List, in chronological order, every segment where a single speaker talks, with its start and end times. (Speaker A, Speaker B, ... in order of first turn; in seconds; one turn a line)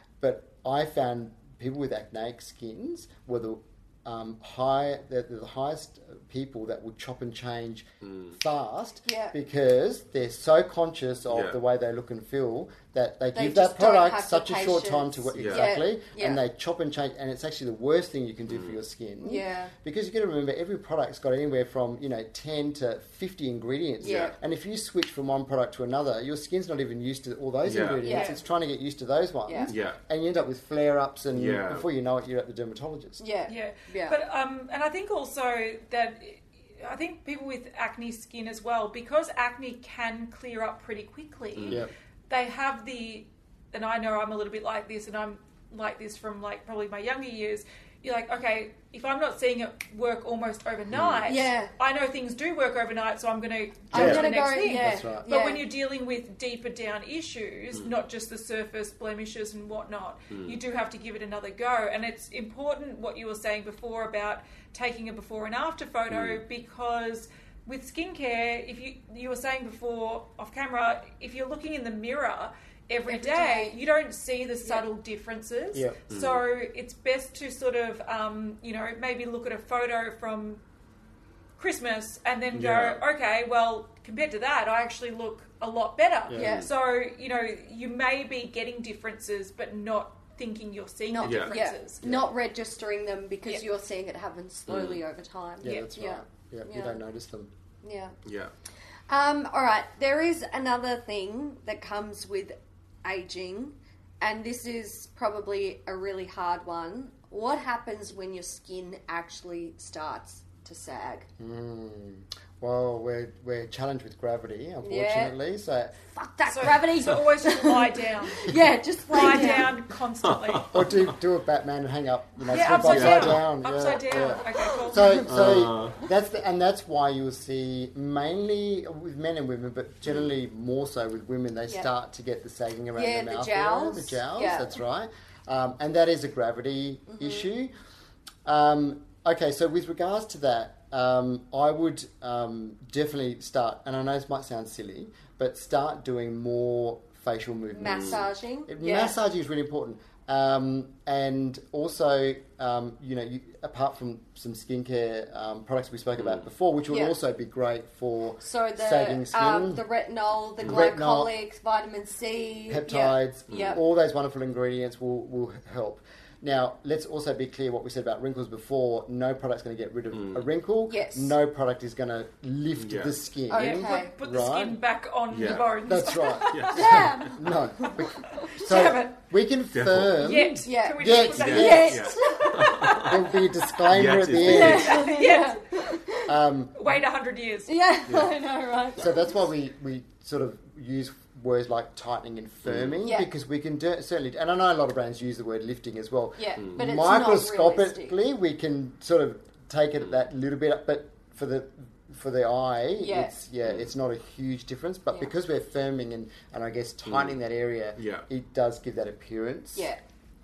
Speaker A: 0.2-33.2
Speaker B: 8.0-8.4
Speaker C: 9.1-9.3
Speaker C: 13.3-16.4
Speaker B: 15.3-15.8
Speaker B: 18.5-18.8
Speaker C: 19.2-19.7
Speaker C: 24.0-24.4
Speaker B: 27.6-28.0
Speaker C: 28.0-28.4
Speaker D: 28.0-28.4
Speaker B: 29.7-30.0
Speaker B: 31.4-31.9
Speaker C: 33.2-34.2
Speaker D: 33.5-80.6
Speaker B: 41.6-41.8
Speaker B: 50.9-51.3
Speaker C: 51.3-51.7
Speaker C: 53.9-55.6
Speaker A: 53.9-55.3
Speaker B: 60.3-60.6
Speaker B: 66.1-66.4
Speaker C: 73.1-73.8
Speaker B: 76.1-76.4
Speaker D: 81.6-92.0
Speaker B: 82.5-83.0
Speaker A: 86.3-86.5
Speaker C: 86.3-86.7
Speaker B: 86.4-86.7
Speaker C: 91.1-97.0
Speaker B: 91.2-91.5
Speaker A: 92.0-92.3
Speaker B: 94.7-95.0
Speaker A: 95.6-97.5
Speaker D: 95.6-95.9
Speaker C: 97.8-98.2
Speaker B: 98.2-98.5
Speaker C: 99.1-111.3
Speaker A: 111.4-116.0
Speaker C: 114.8-115.3
Speaker C: 116.1-119.8
Speaker D: 116.5-118.6
Speaker D: 119.1-120.8
Speaker B: 120.2-121.2
Speaker A: 120.7-137.7
Speaker D: 122.5-125.3
Speaker B: 122.7-123.5
Speaker C: 124.6-125.3
Speaker B: 125.2-126.0
Speaker C: 132.9-134.7
Speaker C: 137.1-137.5
Speaker A: 138.4-159.8
Speaker C: 147.7-149.2
Speaker B: 147.8-148.2
Speaker B: 156.2-156.5
Speaker C: 156.9-157.2
Speaker C: 158.4-163.8
Speaker A: 160.6-161.3
Speaker A: 162.7-174.8
Speaker B: 163.5-163.8
Speaker B: 170.1-170.5
Speaker C: 170.9-171.4
Speaker B: 172.8-173.1
Speaker C: 173.5-174.1
Speaker D: 173.5-177.1
Speaker B: 175.3-175.8
Speaker A: 175.8-182.1
Speaker B: 176.5-177.3
Speaker C: 176.7-178.5
Speaker D: 178.2-179.2
Speaker B: 179.7-180.2
Speaker D: 180.1-182.3
Speaker C: 180.6-183.4
Speaker B: 181.3-183.2
Speaker A: 183.0-185.1
Speaker B: 183.9-185.0
Speaker C: 184.4-186.3
Speaker D: 184.8-185.6
Speaker A: 186.3-186.9
Speaker D: 186.8-187.8
Speaker C: 187.7-189.4
Speaker A: 189.0-209.9
Speaker B: 192.7-193.0
Speaker C: 196.4-198.2
Speaker C: 203.0-203.3
Speaker B: 207.1-207.4
Speaker B: 208.0-208.3
Speaker C: 209.8-210.0